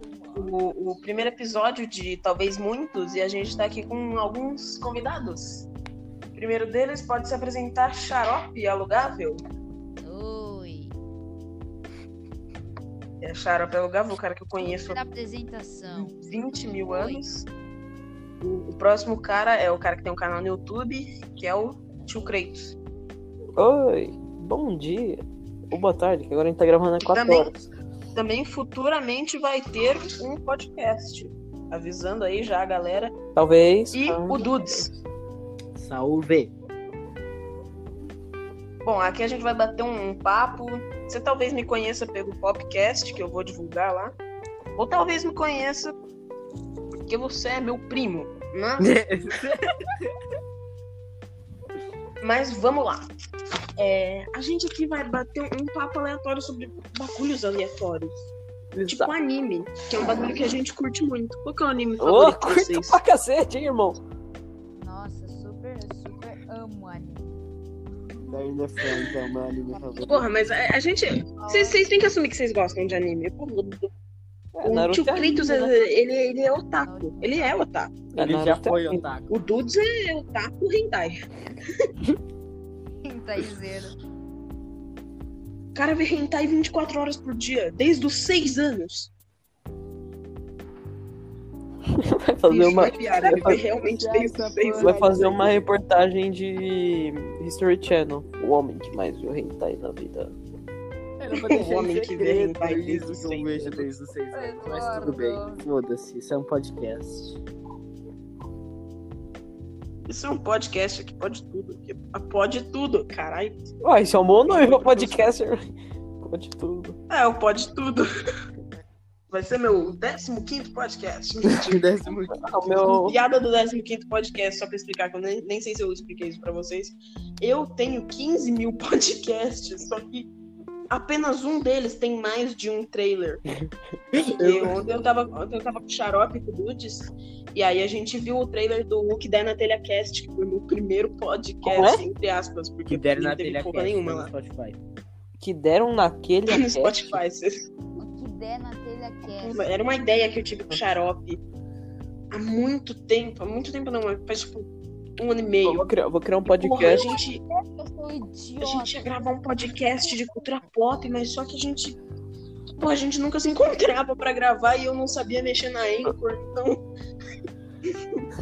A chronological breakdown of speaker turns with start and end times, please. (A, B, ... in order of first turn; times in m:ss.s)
0:00.3-0:00.6 A
0:00.3-0:05.7 B
0:06.3-0:09.4 B
0:10.0-0:10.9 C
0:13.2-0:15.0 B
0:14.6-0:17.2 C
0:15.9-0:17.5 B
0:18.4-0:22.8 B
0:23.6-0:27.6 D
0:27.0-0:27.5 B
0:28.1-0:33.2 B
0:33.4-0:34.9 D
0:33.9-0:34.9 B
0:35.8-0:36.5 A
0:38.8-0:44.1 B
0:44.8-0:46.0 B
0:47.1-0:49.0 B
0:48.8-0:50.1 A
0:52.2-0:53.1 B
0:53.8-0:58.3 B
0:58.7-0:59.1 D
0:58.9-1:03.0 B
1:02.0-1:04.0 D
1:04.8-1:07.4 C
1:08.3-1:10.3 A
1:10.0-1:13.9 B
1:11.4-1:11.8 C
1:14.5-1:15.9 D
1:14.6-1:18.0 B
1:16.5-1:17.6 C
1:18.2-1:19.0 D
1:18.2-1:19.4 A
1:19.3-1:21.2 B
1:23.0-1:24.0 C
1:25.7-1:29.1 B
1:31.9-1:33.6 D
1:32.5-1:35.0 B
1:33.2-1:35.7 A
1:34.8-1:40.4 D
1:41.2-1:47.4 A
1:41.4-1:43.9 B
1:44.3-1:45.6 C
1:50.1-1:53.7 B
1:53.8-1:55.7 D
1:54.4-1:55.3 B
1:56.2-1:57.0 D
1:57.1-1:58.1 B
1:59.3-2:01.9 B
2:01.4-2:03.0 A
2:02.4-2:03.2 D
2:03.0-2:10.3 B
2:10.9-2:13.4 B
2:14.1-2:14.7 A
2:14.1-2:24.3 B
2:21.6-2:22.0 D
2:22.9-2:24.8 A
2:25.4-2:27.2 D
2:26.5-2:27.7 B
2:28.0-2:29.6 C
2:29.3-2:31.4 B
2:32.3-2:34.7 B
2:35.2-2:35.9 B
2:35.6-2:37.2 D
2:36.4-2:37.4 B
2:36.9-2:39.2 C
2:38.6-2:42.0 B
2:40.0-2:40.4 C
2:42.8-2:46.8 B